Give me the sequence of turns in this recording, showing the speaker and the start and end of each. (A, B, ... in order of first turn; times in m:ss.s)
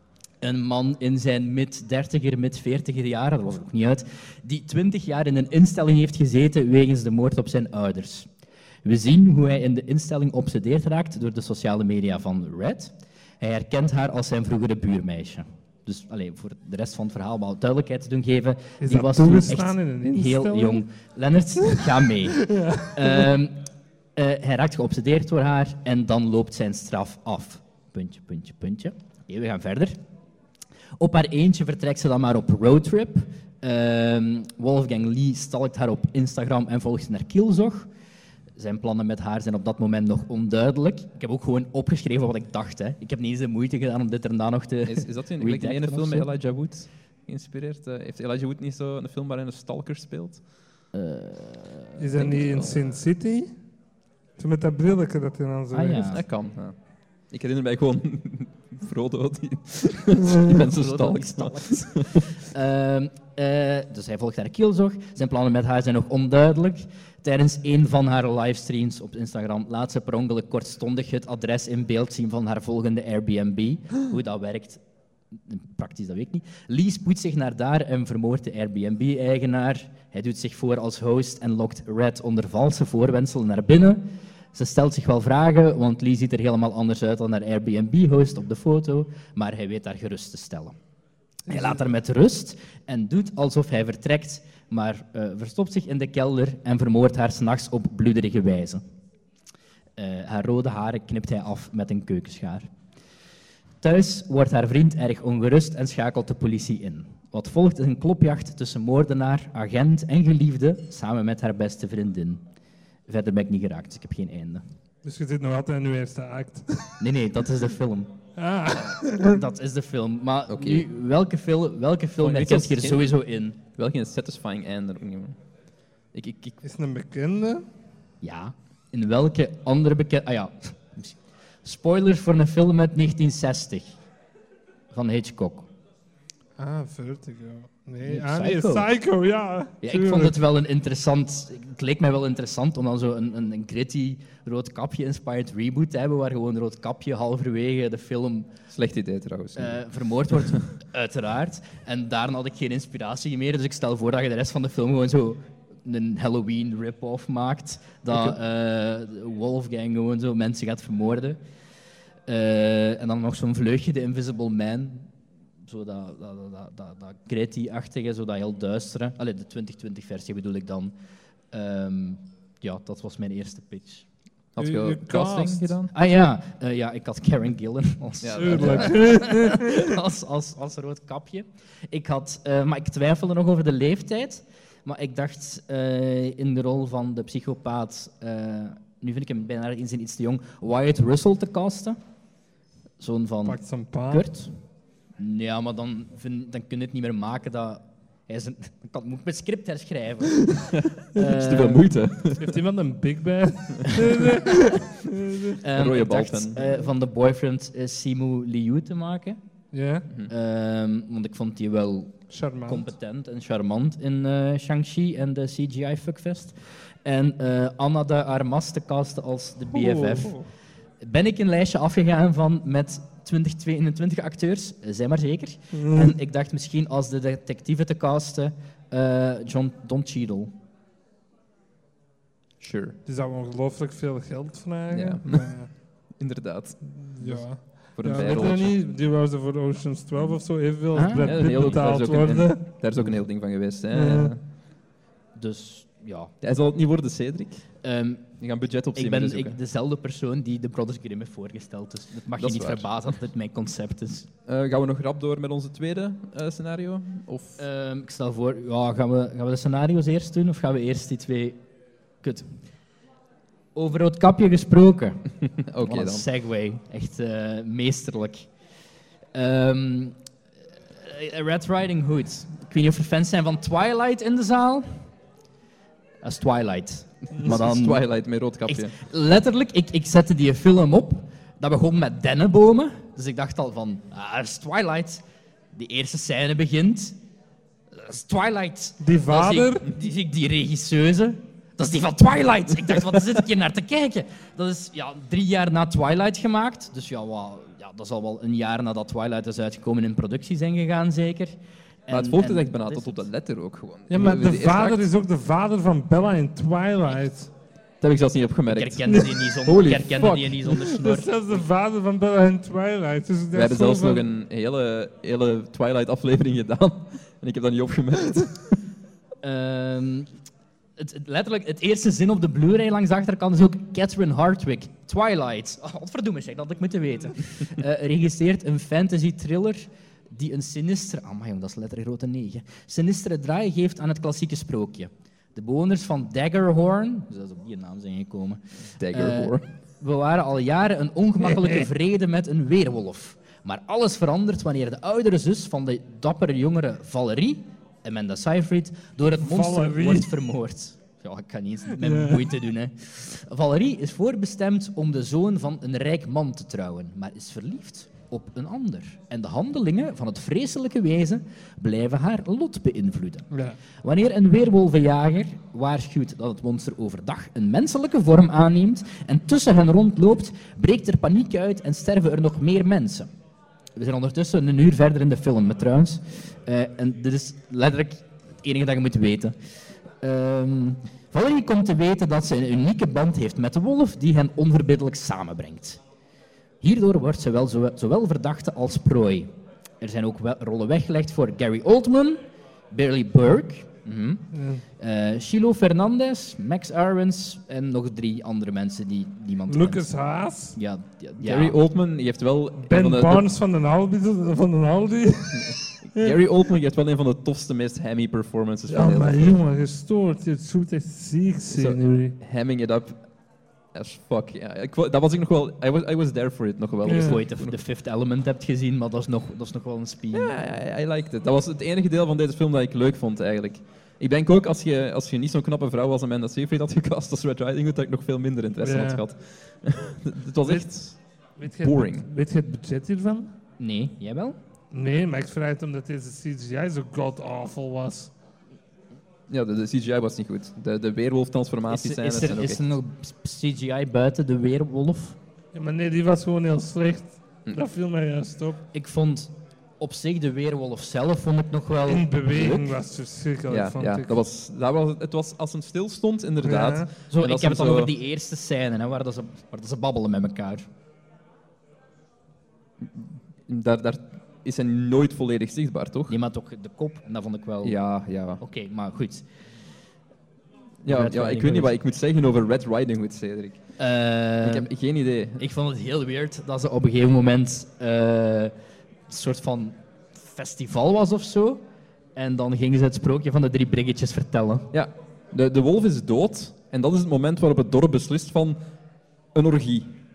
0:00.4-0:08.3 A
0:08.8-0:30.0 A
0:18.8-0:20.8 B
0:22.4-0:23.3 B
0:31.0-0:37.9 A
0:38.6-0:46.3 A
0:44.8-0:50.4 C
0:50.9-0:52.0 A
0:52.0-0:53.5 B
0:52.1-0:52.9 C
0:54.4-0:56.2 B
0:55.7-0:56.2 A
0:56.1-1:02.2 C
1:00.7-1:14.8 A
1:15.4-1:30.8 A
1:31.5-1:31.8 B
1:31.5-1:38.8 A
1:40.0-1:42.7 A
1:43.8-1:52.4 A
1:53.1-1:54.6 A
1:55.0-1:57.0 B
1:57.0-1:58.1 A
1:58.4-1:59.4 B
1:59.2-2:03.6 A
2:00.5-2:00.9 C
2:02.2-2:03.1 C
2:03.8-2:05.4 C
2:06.1-2:06.6 C
2:06.6-2:07.6 B
2:08.2-2:14.0 A
2:14.9-2:15.7 A
2:16.6-2:20.4 B
2:18.0-2:18.9 A
2:19.8-2:28.5 A
2:28.7-2:29.8 C
2:29.6-2:41.4 A
2:42.2-2:45.1 A
2:45.7-2:50.9 A
2:51.5-2:54.1 A
2:54.5-2:55.9 C
2:54.6-2:55.8 B
2:55.9-3:12.0 A
2:58.2-2:59.1 C
2:58.4-2:59.8 B
3:13.0-3:14.6 A
3:13.4-3:14.3 B
3:15.2-3:21.9 A
3:21.2-3:22.6 C
3:22.4-3:25.6 B
3:25.6-3:29.4 A
3:25.7-3:26.8 C
3:29.7-3:30.1 B
3:30.3-3:40.4 A
3:32.3-3:32.9 B
3:39.7-3:40.5 B
3:41.0-3:50.5 A
3:45.7-3:46.2 B
3:52.6-3:53.0 C
3:53.0-3:55.8 B
3:54.9-3:58.8 C
3:56.9-4:03.0 B
4:00.9-4:01.8 A
4:01.2-4:04.4 C
4:03.9-4:04.3 B
4:05.4-4:06.3 A
4:06.4-4:07.8 C
4:07.8-4:08.4 A
4:08.4-4:09.6 C
4:08.9-4:14.3 A
4:12.4-4:13.1 C
4:14.4-4:17.6 C
4:17.6-4:21.6 A
4:22.2-4:22.5 A
4:23.8-4:25.2 A
4:25.4-4:26.3 C
4:25.8-4:28.5 A
4:29.3-4:30.2 A
4:31.0-4:35.1 A
4:36.2-4:38.0 A
4:37.4-4:39.0 C
4:38.6-4:45.2 A
4:45.7-4:47.2 A
4:47.9-5:01.6 A
4:49.0-4:49.8 B
5:02.1-5:03.2 A
5:02.1-5:05.0 C
5:04.1-5:07.5 B
5:08.0-5:10.6 C
5:08.7-5:11.6 A
5:09.1-5:09.4 B
5:10.6-5:14.2 B
5:13.5-5:18.8 C
5:19.4-5:20.3 A
5:21.0-6:03.5 A
5:39.0-5:39.6 C
5:41.4-5:41.9 B
5:49.4-5:50.3 B
5:51.9-5:52.6 B
6:03.5-6:03.8 B
6:04.0-6:13.3 A
6:14.0-6:19.6 A
6:20.2-6:26.0 A
6:26.8-6:32.4 A
6:32.9-6:40.1 A
6:34.5-6:34.8 B
6:39.7-6:40.8 B
6:40.7-6:41.8 A
6:41.4-6:43.4 C
6:42.8-6:46.3 B
6:45.6-6:49.6 C
6:48.9-6:52.3 B
6:51.7-6:53.2 C
6:53.9-6:57.8 C
6:57.0-6:57.4 B
6:57.1-7:00.5 A
7:00.3-7:12.3 C
7:08.8-7:09.2 B
7:11.6-7:13.5 B
7:13.8-7:14.6 A
7:14.9-7:18.3 B
7:19.5-7:22.8 C
7:21.9-7:25.4 A
7:25.7-7:28.8 B
7:28.9-7:32.9 A
7:32.1-7:34.3 B
7:33.7-7:38.1 C
7:36.6-7:37.1 B
7:37.3-7:40.9 A
7:43.0-7:46.3 C
7:46.3-7:48.0 A
7:47.8-7:48.6 C
7:48.6-7:49.4 A
7:51.0-7:53.8 C
7:51.1-7:51.9 A
7:54.0-7:54.9 A
7:54.6-7:55.6 C
7:55.6-7:58.7 A
7:59.3-8:01.8 A
8:02.4-8:04.9 A
8:04.9-8:08.8 C
8:09.5-8:10.2 C